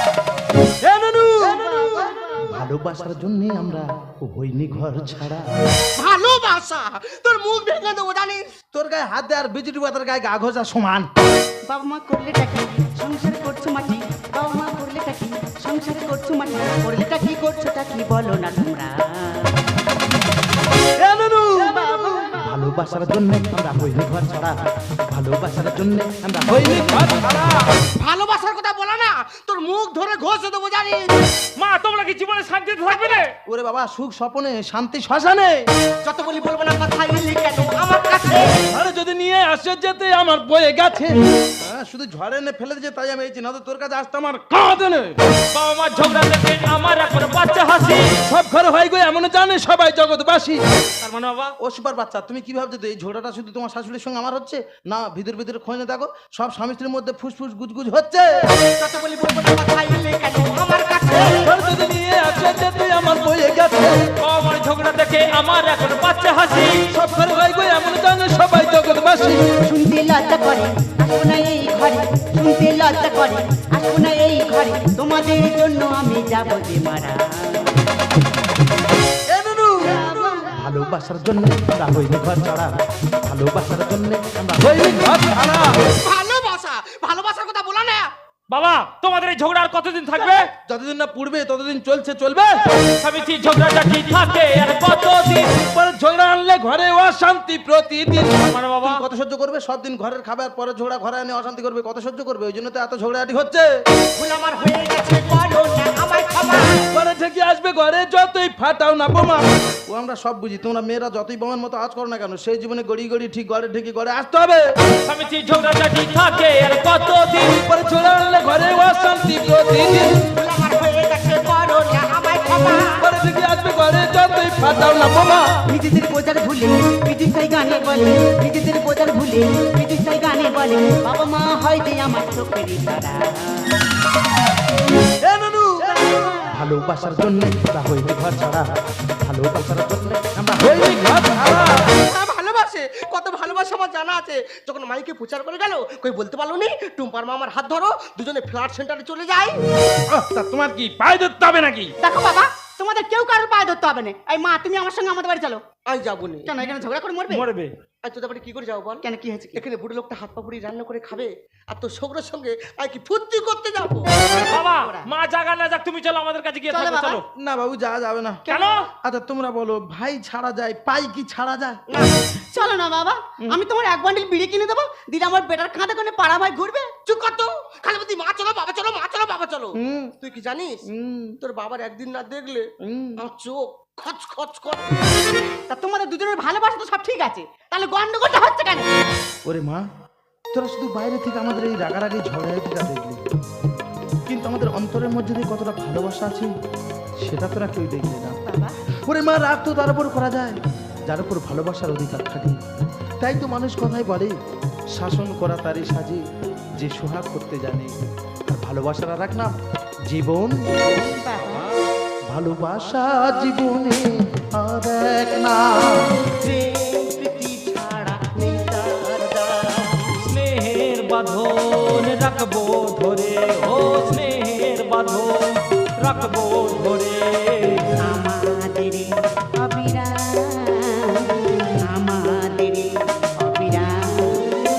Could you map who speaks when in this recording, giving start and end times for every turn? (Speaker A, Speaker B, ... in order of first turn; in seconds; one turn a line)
Speaker A: 0.8-5.5
Speaker B: 1.8-2.4
Speaker C: 6.0-8.5
Speaker A: 8.7-11.1
Speaker B: 11.7-19.6
Speaker A: 21.0-24.6
Speaker B: 21.7-22.5
Speaker A: 25.1-27.6
Speaker C: 28.0-31.1
Speaker D: 31.6-33.3
Speaker C: 33.0-33.2
Speaker A: 33.5-35.6
Speaker C: 36.0-38.6
Speaker A: 38.7-45.2
Speaker D: 45.5-48.1
Speaker A: 48.3-50.6
Speaker D: 51.0-51.5
Speaker A: 51.6-58.4
Speaker C: 58.8-61.5
Speaker A: 61.4-64.0
Speaker D: 64.2-66.9
Speaker A: 66.9-69.5
Speaker B: 69.6-77.8
Speaker A: 79.3-85.8
Speaker B: 80.0-80.7
Speaker C: 86.0-88.1
Speaker D: 88.5-90.5
Speaker A: 90.7-92.6
Speaker D: 93.0-95.5
Speaker A: 95.6-103.7
Speaker D: 98.5-99.0
Speaker C: 104.2-106.9
Speaker A: 106.9-114.6
Speaker D: 115.0-117.6
Speaker A: 117.7-120.2
Speaker C: 120.2-123.0
Speaker A: 123.0-125.5
Speaker B: 125.7-133.8
Speaker A: 135.2-138.7
Speaker A: 139.2-141.9
Speaker C: 141.8-149.6
Speaker A: 150.1-151.9
Speaker B: 152.0-155.6
Speaker C: 155.9-156.5
Speaker B: 156.5-157.4
Speaker D: 157.3-157.7
Speaker C: 158.0-159.0
Speaker B: 159.0-159.6
Speaker C: 159.6-164.4
Speaker B: 164.5-165.1
Speaker D: 164.5-167.2
Speaker B: 166.7-167.2
Speaker A: 167.4-168.4
Speaker B: 168.5-168.8
Speaker D: 168.5-168.9
Speaker A: 169.0-171.8
Speaker B: 172.5-176.9
Speaker C: 177.1-180.8
Speaker A: 179.8-180.1
Speaker A: 180.9-181.4
Speaker C: 181.4-185.0
Speaker A: 182.8-183.2
Speaker B: 185.7-188.9
Speaker A: 189.5-189.9
Speaker A: 190.5-193.2
Speaker A: 194.3-196.5
Speaker A: 197.2-198.4
Speaker B: 198.4-198.8
Speaker A: 199.1-202.7
Speaker A: 203.2-204.3
Speaker A: 204.9-206.2
Speaker A: 206.8-207.9
Speaker A: 208.5-209.6
Speaker A: 210.1-210.8
Speaker B: 211.0-211.7
Speaker A: 212.3-216.2
Speaker B: 216.4-220.2
Speaker D: 220.2-227.9
Speaker B: 228.0-234.5